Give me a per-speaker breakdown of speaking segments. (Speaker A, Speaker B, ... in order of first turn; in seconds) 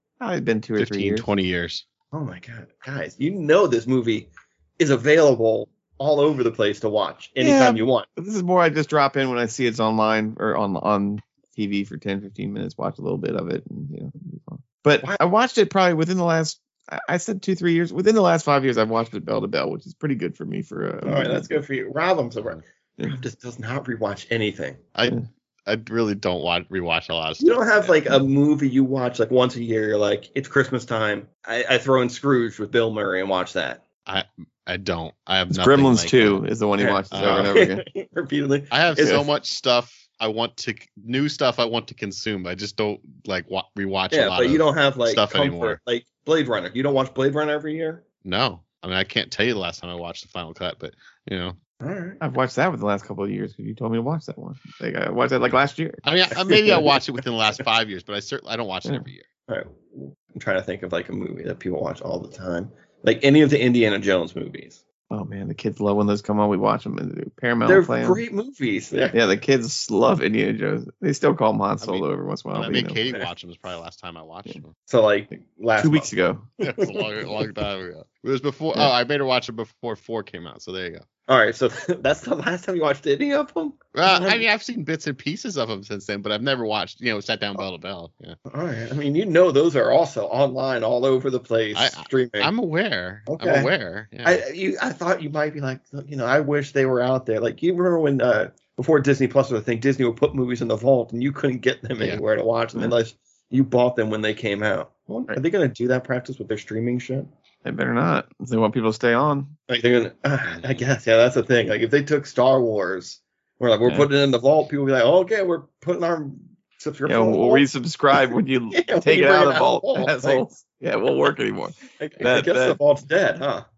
Speaker A: 0.2-1.3, 7.4-21.6, 23.0-23.2, 35.5-37.8, 39.0-39.3, 52.2-56.0, 58.8-59.1, 65.1-68.2, 69.1-73.0, 75.8-76.5, 107.6-109.5, 117.0-122.8
Speaker B: 0.8-1.8, 24.9-28.1, 34.0-36.4, 37.1-37.5, 38.7-45.8, 48.2-51.6, 56.0-59.2, 71.8-74.7, 76.6-81.0, 83.9-88.3, 91.7-94.4, 110.5-110.8
Speaker C: 2.1-8.1, 21.0-24.9, 27.4-33.8, 36.8-39.1, 44.1-48.0, 51.8-52.2, 59.5-64.8, 67.7-69.2, 74.9-76.1, 76.7-77.4, 81.3-84.5, 88.5-92.5, 93.3-93.7, 94.2-107.3, 109.7-117.7, 118.7-120.5, 122.0-123.7